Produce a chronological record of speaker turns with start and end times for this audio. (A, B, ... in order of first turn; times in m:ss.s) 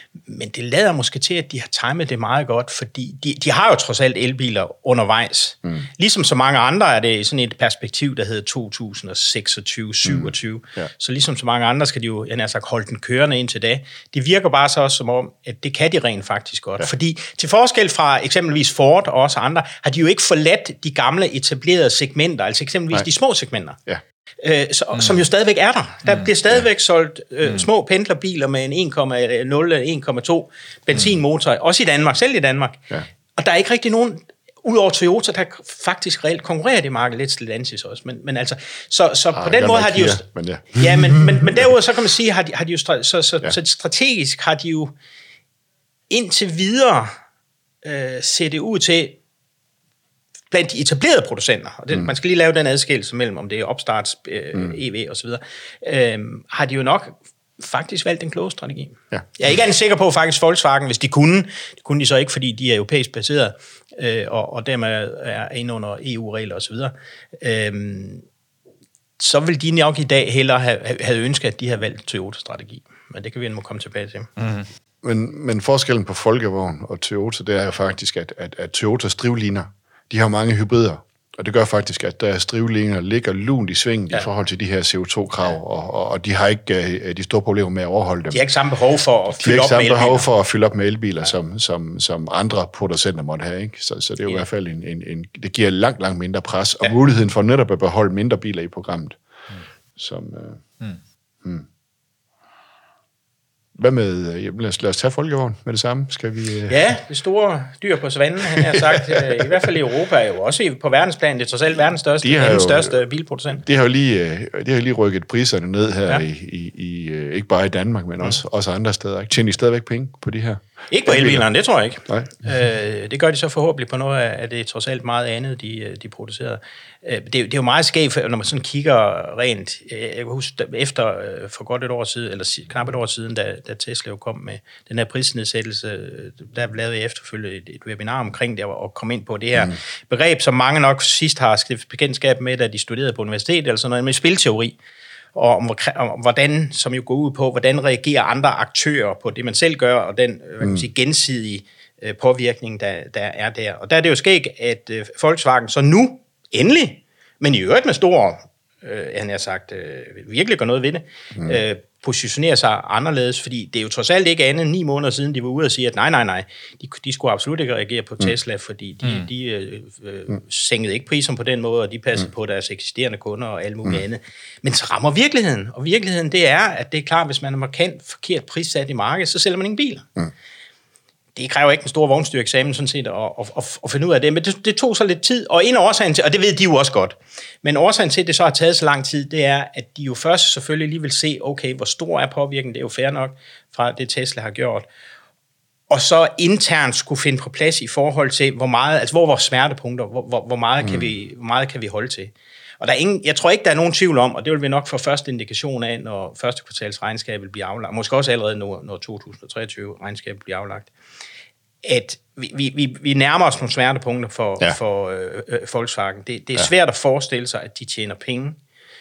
0:00.2-0:23.8 A
0:24.4-0:44.9 A
0:39.3-0:41.3 B
0:46.1-0:47.1 A
0:47.8-0:49.2 A
0:50.5-1:08.2 A
1:09.2-1:14.3 A
1:15.0-1:28.4 B
1:28.3-1:30.3 A
1:29.4-1:39.2 B
1:40.0-1:40.6 B
1:43.8-1:46.8 B
1:46.7-1:53.6 A
1:48.9-1:49.2 B
1:52.2-1:53.0 B
1:53.6-2:01.4 B
2:00.9-2:24.8 A
2:25.4-3:00.1 A
3:01.4-3:14.9 A
3:15.9-3:30.9 A
3:31.8-3:38.6 A